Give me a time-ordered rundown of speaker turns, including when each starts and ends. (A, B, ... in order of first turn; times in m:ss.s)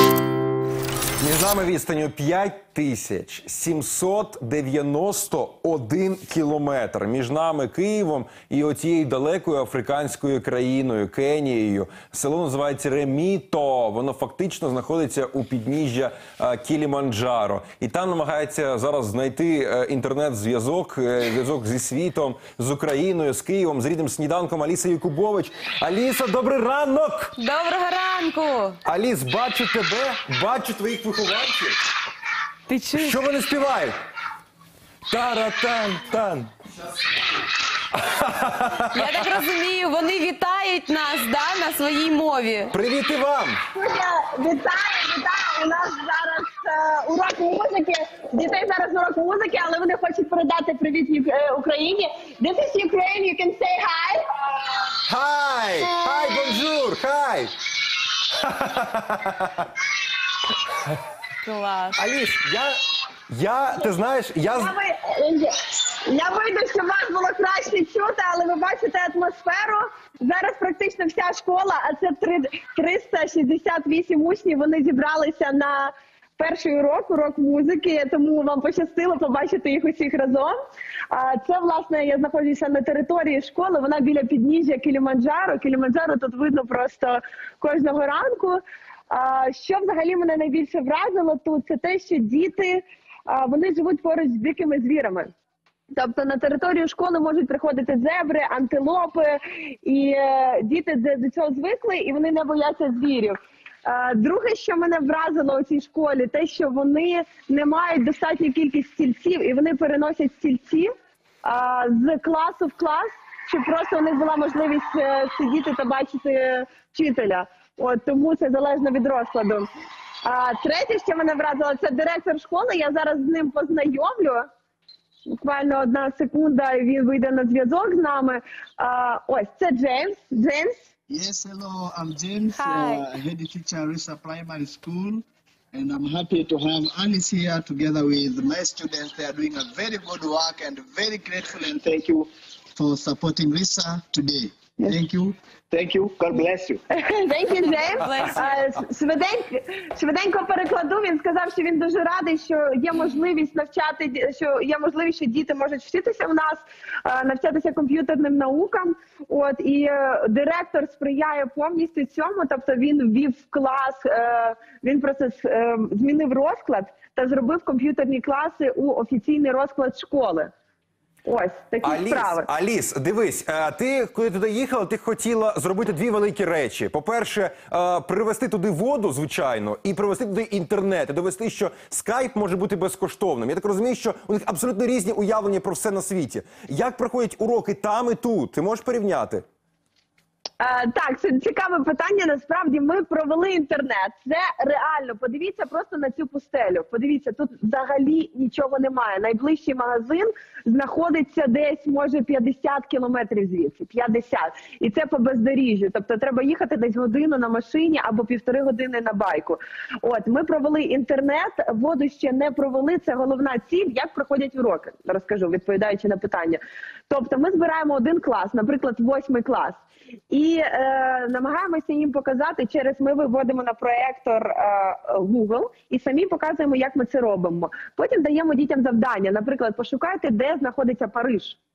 0:01.2-0:27.4 A
0:27.4-0:28.8 B
0:28.8-0:31.8 A
0:32.7-0:33.2 B
0:32.9-0:34.0 A
0:35.1-0:36.5 A
0:37.9-0:39.2 A
0:38.9-0:42.7 B
0:42.7-0:43.6 A
0:43.7-0:54.8 C
0:55.1-0:57.5 A
0:58.3-0:59.7 A
1:01.4-1:02.0 B
1:02.0-1:02.8 A
1:03.3-1:04.7 A
1:04.5-1:20.6 C
1:21.1-1:35.3 C
1:36.0-1:50.9 C
1:51.4-1:59.7 C
2:00.2-2:04.5 C
2:05.3-2:10.9 C
2:11.1-2:26.8 D
2:12.6-2:13.0 B
2:26.9-2:50.5 C
2:27.7-2:28.5 B
2:51.2-2:52.5 C
2:51.8-3:09.4 A
3:10.6-3:51.6 C